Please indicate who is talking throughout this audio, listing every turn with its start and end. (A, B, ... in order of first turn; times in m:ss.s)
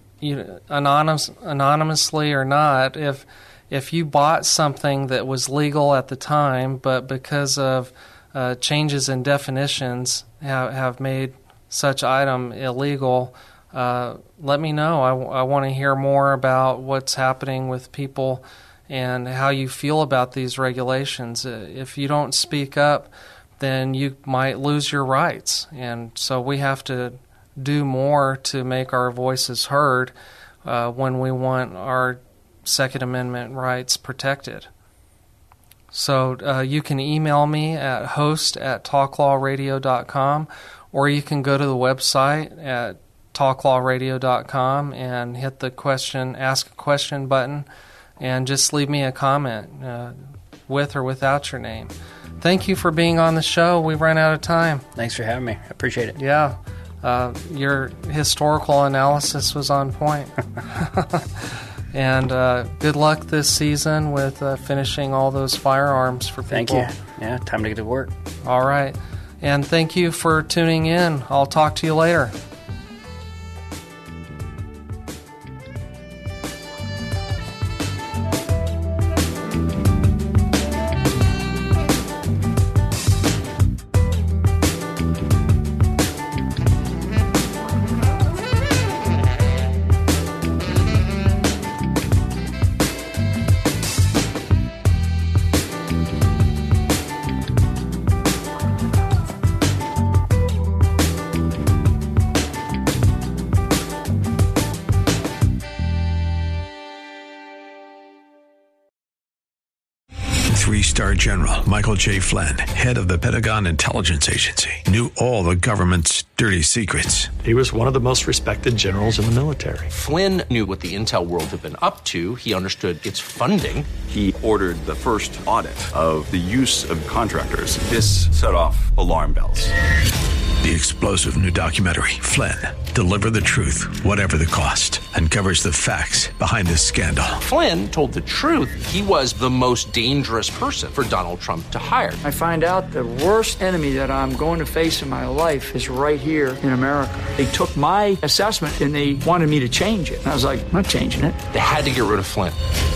0:00.2-0:30.1 A
0:30.6-0:34.7 A
0:35.9-0:47.7 A
0:48.2-0:54.8 A
0:55.0-0:56.2 B
0:56.2-1:06.9 A
1:06.5-1:08.1 B
1:08.4-1:12.3 A
1:50.5-1:57.4 C
1:57.4-1:59.9 D
1:59.9-2:03.9 E
2:04.1-2:09.7 F
2:10.6-2:17.4 C
2:17.4-2:22.2 E
2:22.2-2:31.4 G
2:31.5-2:32.6 E